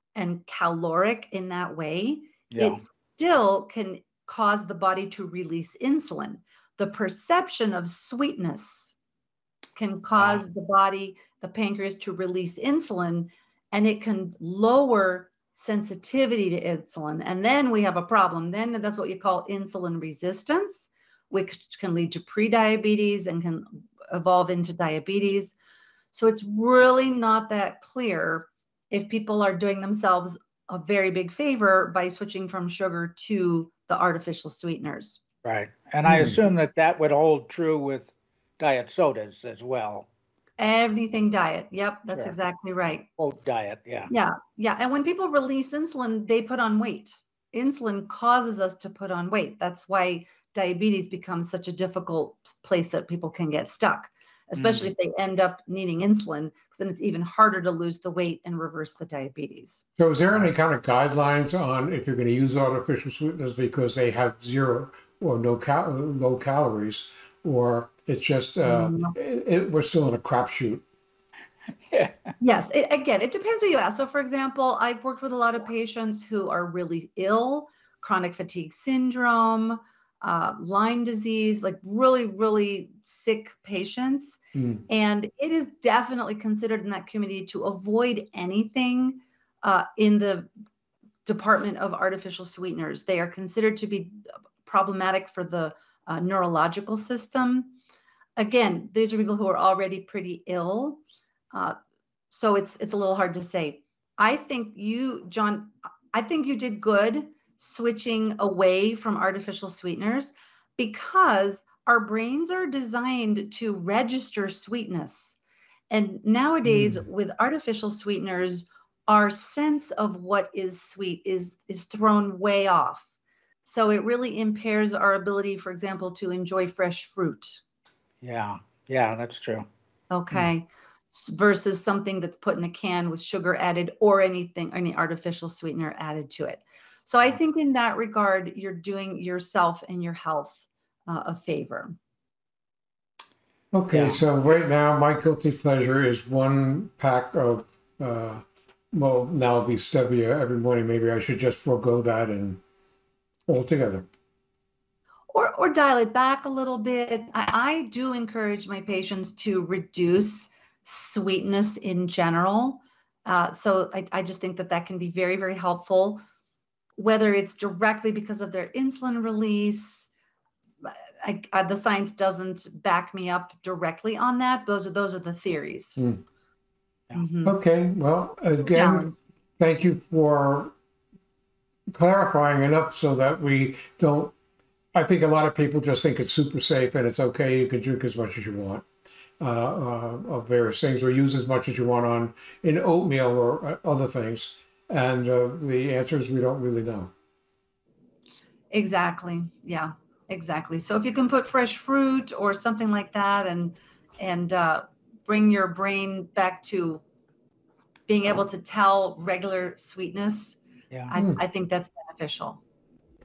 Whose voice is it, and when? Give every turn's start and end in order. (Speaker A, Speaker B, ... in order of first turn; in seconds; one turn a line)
Speaker A: 0.1-8.9
Speaker B: 2.5-2.8
Speaker A: 9.8-25.6
Speaker A: 26.1-35.2
Speaker B: 35.5-40.1
Speaker C: 36.1-36.4
Speaker A: 40.6-43.1
Speaker B: 43.2-44.1
Speaker A: 44.1-59.9
Speaker B: 54.5-54.9
Speaker C: 60.0-70.8
Speaker A: 68.6-69.1
Speaker B: 71.9-72.2
Speaker A: 72.4-90.5
Speaker C: 84.5-84.8
Speaker A: 91.2-97.8
Speaker A: 98.4-101.0
Speaker A: 102.3-115.4
Speaker A: 115.9-123.1
Speaker C: 116.7-117.0
Speaker A: 123.6-127.6
Speaker B: 128.2-129.7
Speaker A: 130.1-141.9
Speaker C: 143.7-152.6
Speaker B: 143.9-144.2
Speaker C: 153.5-154.1
Speaker A: 155.3-166.2
Speaker A: 167.0-170.1
Speaker A: 170.8-176.0
Speaker C: 176.0-176.2
Speaker A: 177.2-177.6
Speaker C: 177.4-180.7
Speaker A: 178.7-179.1
Speaker C: 181.9-184.3
Speaker C: 184.9-188.9
Speaker C: 189.4-197.1
Speaker A: 198.7-207.0
Speaker A: 208.1-210.6
Speaker A: 211.1-212.6
Speaker C: 211.2-211.4